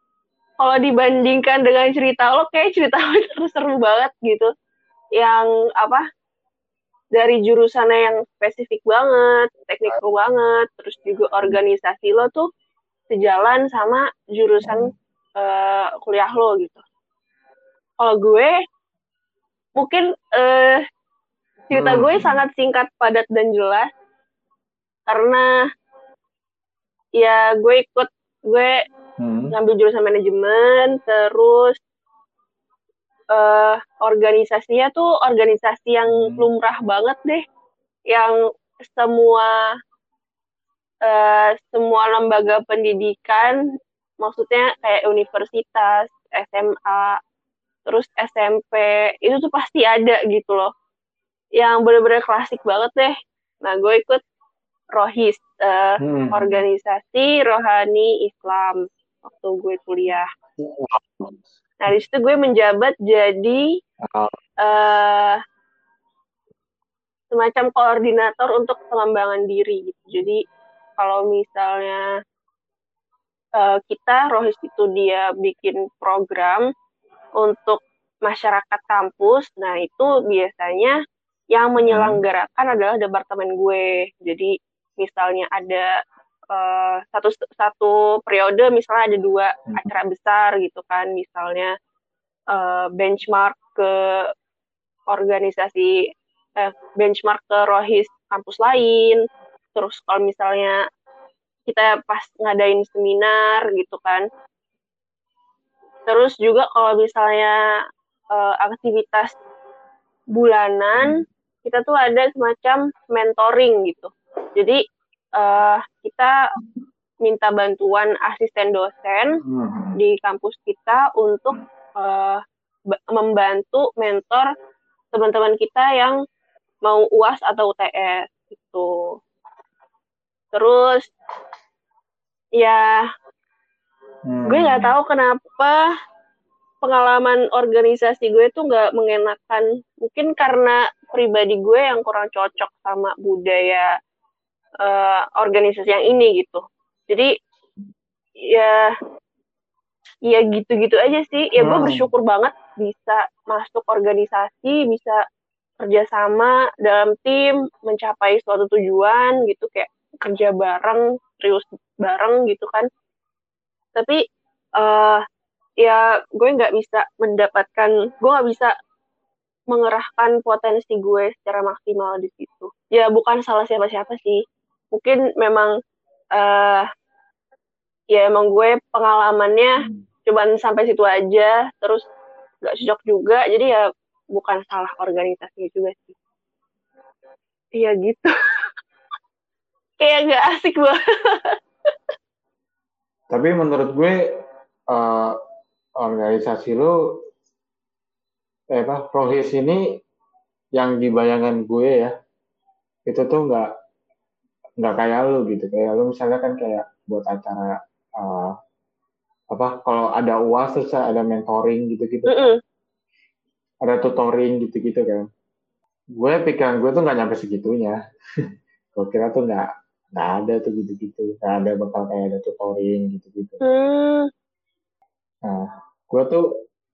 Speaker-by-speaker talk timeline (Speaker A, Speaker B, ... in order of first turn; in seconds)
Speaker A: 0.6-4.5, 5.2-6.0, 7.2-12.5, 13.1-16.8, 18.0-18.5, 19.8-20.8, 21.7-23.9, 25.1-25.5, 27.2-28.8, 29.5-31.8, 33.3-37.4, 38.1-39.6, 41.0-43.6, 44.2-47.2, 47.9-50.7, 51.6-54.2, 55.0-60.3, 61.8-63.7, 64.6-65.4, 67.3-70.4, 71.0-72.0, 73.6-76.7, 77.4-81.0, 81.5-85.9, 86.5-91.7, 92.5-94.3, 95.1-96.0, 96.6-99.2, 99.8-100.8, 101.7-104.3, 106.1-107.6, 108.3-109.4, 110.3-114.8, 115.4-116.4, 117.2-119.4, 120.0-122.4, 122.9-124.5, 125.1-126.2, 126.8-129.2, 130.5-131.1, 132.6-133.0, 134.5-135.9, 136.8-143.9, 144.8-147.3, 148.5-148.9, 150.3-155.2, 155.8-162.9, 164.0-164.2, 164.8-165.2, 165.8-168.7, 169.7-174.4, 174.9-175.7, 176.3-176.9, 178.1-182.1, 182.6-186.2, 187.8-188.3, 190.0-191.6, 212.3-212.6, 223.6-224.3
Speaker B: 14.6-14.9, 21.7-22.4, 29.2-29.5, 36.1-36.5, 56.0-56.6, 60.6-61.4, 64.1-64.4, 81.8-82.2, 89.7-89.9, 111.0-111.2, 119.4-120.0, 134.3-134.9, 151.6-152.1, 193.3-194.2, 194.9-195.4, 196.0-196.9, 198.7-199.8, 200.8-202.1, 203.1-203.7, 204.8-208.5, 209.5-212.5, 213.8-215.3, 216.2-218.0, 218.9-223.6, 225.4-226.4